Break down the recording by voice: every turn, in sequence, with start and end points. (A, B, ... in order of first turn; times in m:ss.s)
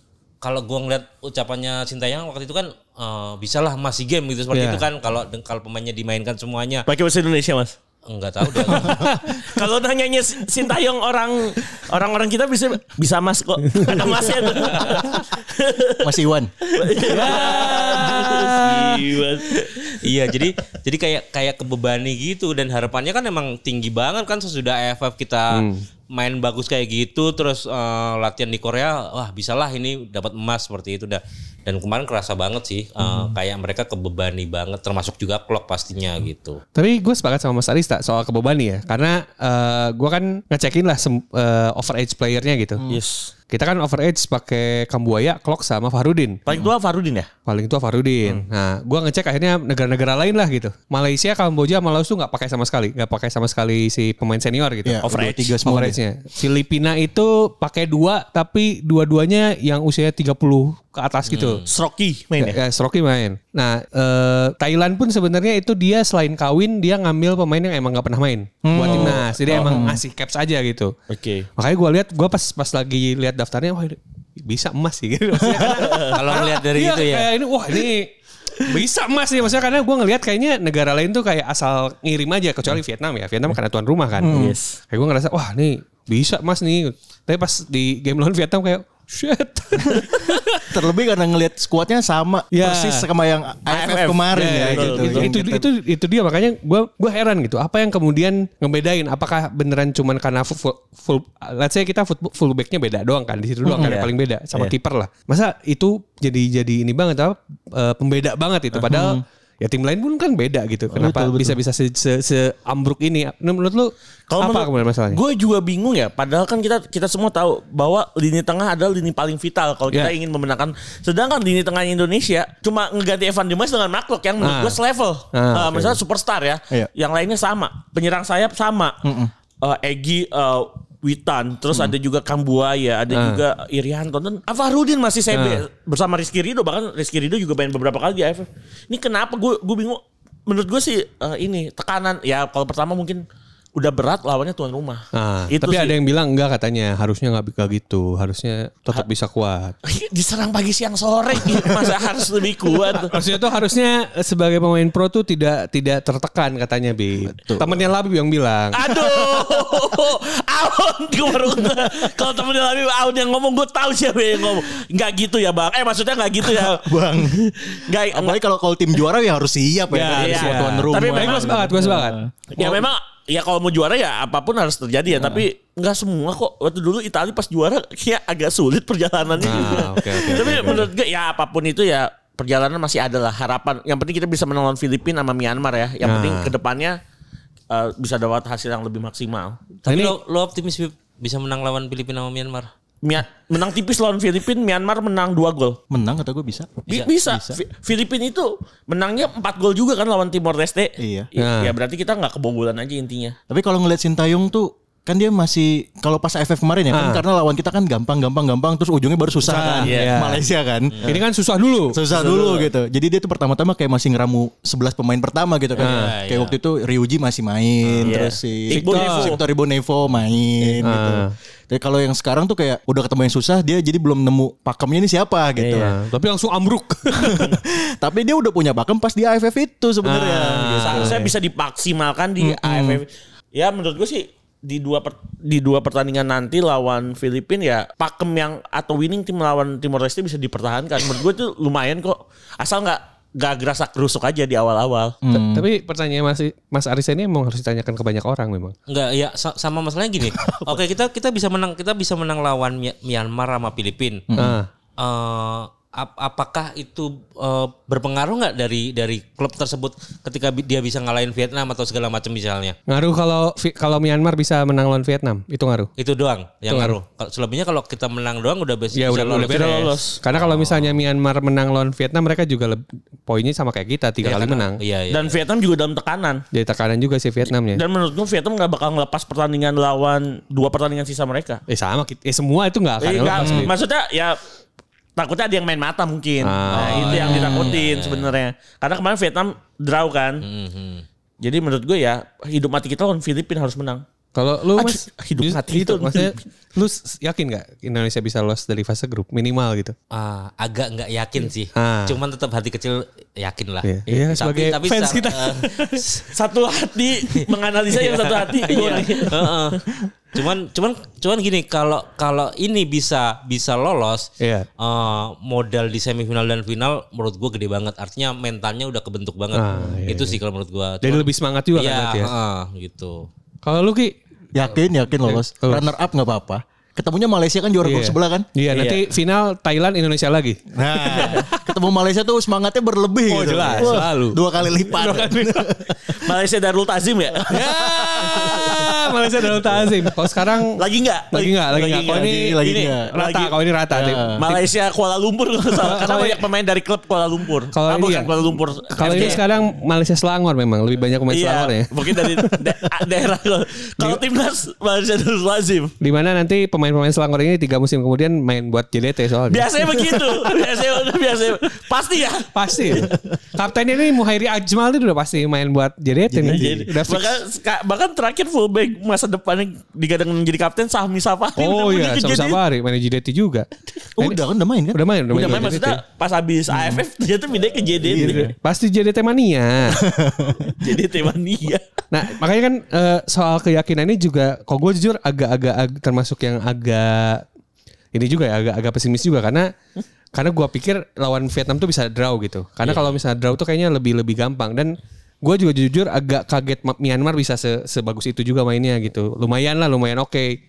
0:00.4-0:06.9 A
0:04.5-0:04.8 B
0:06.9-0:07.8 C
0:08.1-0:09.1 A
0:08.6-0:09.4 B
0:08.7-0:20.4 C
0:13.7-0:14.2 B
0:16.0-0:16.5 D
0:17.0-0:19.0 B
0:19.9-0:36.6 A
0:25.5-0:25.8 B
0:36.8-0:42.8 B
0:42.8-0:43.3 C
0:43.5-0:46.4 B
0:46.5-0:47.3 C
0:47.5-0:55.0 B
0:54.8-0:56.0 D
0:55.0-0:55.6 C
0:55.6-1:01.6 B
1:01.3-1:01.7 A
1:01.7-1:02.6 C
1:02.4-1:10.9 B
1:08.6-1:10.0 D
1:08.8-1:09.8 C
1:11.1-1:11.5 C
1:11.6-1:24.4 B
1:15.6-1:16.4 C
1:16.0-1:17.3 A
1:24.2-1:24.6 D
1:24.3-1:24.8 C
1:24.9-1:30.7 B
1:30.6-1:35.7 D
1:32.5-1:33.1 B
1:33.7-1:35.3 C
1:34.3-1:55.2 B
1:43.7-1:44.7 C
1:43.7-1:44.0 D
1:48.9-1:49.2 D
1:50.9-1:51.6 D
1:54.3-2:09.0 C
2:04.4-2:04.8 B
2:05.3-2:06.0 B
2:09.0-2:09.3 D
2:09.6-2:23.2 C
2:11.7-2:12.0 D
2:13.1-2:13.4 B
2:15.3-2:15.6 B
2:23.8-2:25.9 C
2:25.1-2:29.8 B
2:29.8-2:33.2 C
2:32.9-2:38.8 B
2:37.3-2:37.9 D
2:38.7-2:48.4 C
2:39.0-2:39.6 D
2:46.4-2:47.5 D
2:48.1-2:52.7 D
2:49.9-2:52.8 B
2:50.1-2:51.7 C
2:52.5-3:07.0 C
2:55.1-2:55.4 D
2:59.4-3:00.9 B
3:00.4-3:00.8 D
3:06.0-3:06.5 B
3:07.7-3:09.6 C
3:09.8-3:12.7 A
3:09.9-3:10.2 B
3:13.0-3:15.8 C
3:15.9-3:17.6 D
3:16.9-3:23.4 C
3:21.0-3:21.3 D
3:21.4-3:21.7 B
3:23.5-3:31.1 D
3:26.9-3:27.2 B
3:29.4-3:30.4 B
3:29.7-3:30.3 C
3:31.0-3:32.0 B
3:31.9-3:46.0 D
3:32.1-3:32.7 C
3:35.8-3:36.6 A
3:35.8-3:36.1 B
3:37.8-3:38.2 A
3:38.0-3:39.4 C
3:38.7-3:39.4 B
3:40.8-3:41.3 B
3:45.6-3:45.9 C
3:45.7-3:47.5 B
3:47.2-3:51.3 D
3:50.0-3:51.3 B
3:50.8-4:05.2 C
3:52.4-3:53.0 D
4:05.2-4:05.6 D
4:05.3-4:08.8 B
4:08.9-4:14.3 A
4:14.3-4:14.6 D
4:14.4-4:14.7 B
4:15.0-4:22.8 A
4:22.9-4:25.9 B
4:26.0-4:31.0 A
4:26.7-4:27.0 B
4:29.0-4:34.8 B
4:29.4-4:30.2 C
4:34.2-4:35.4 A
4:35.1-4:36.4 C
4:36.5-4:37.8 B
4:37.7-4:41.6 C
4:41.7-4:43.7 B
4:43.0-4:44.4 C
4:43.3-4:43.7 D
4:45.2-4:50.4 C
4:46.4-4:47.6 B
4:46.7-4:48.4 A
4:46.9-4:47.7 D
4:50.4-4:51.0 A
4:51.4-4:54.0 C
4:54.4-4:59.9 B
4:54.8-4:56.4 C
5:00.1-5:06.2 A
5:01.8-5:02.2 B
5:03.8-5:06.2 B
5:06.3-5:09.8 C
5:07.9-5:09.8 A
5:10.3-5:23.3 A
5:14.4-5:14.7 B
5:19.5-5:20.4 B
5:21.0-5:22.3 B
5:23.6-5:24.1 B
5:24.6-5:28.5 D
5:25.2-5:25.9 B
5:27.8-5:31.5 B
5:28.7-5:29.0 C
5:30.7-5:36.2 D
5:31.1-5:31.5 C
5:33.3-5:35.7 B
5:33.7-5:34.0 C
5:36.1-5:39.1 C
5:37.5-5:40.8 B
5:38.1-5:39.0 D
5:40.6-5:43.6 C
5:41.3-5:44.6 B
5:42.0-5:43.1 D
5:43.9-5:44.5 D
5:44.4-5:49.4 C
5:45.8-5:46.4 B
5:47.7-5:48.3 B
5:48.9-5:52.6 B
5:51.3-5:55.9 C
5:56.0-6:00.2 B
5:59.5-6:03.2 C
6:02.5-6:07.4 B
6:06.3-6:06.8 D
6:06.3-6:12.6 C
6:11.6-6:13.7 B
6:14.2-6:15.8 D
6:14.9-6:16.0 B
6:15.3-6:18.5 C
6:16.7-6:17.0 D
6:18.0-6:18.5 D
6:18.1-6:20.0 B
6:20.0-6:20.8 D
6:20.6-6:21.8 C
6:22.1-6:27.4 B
6:28.1-6:29.7 B
6:30.3-6:40.6 B
6:32.8-6:33.2 A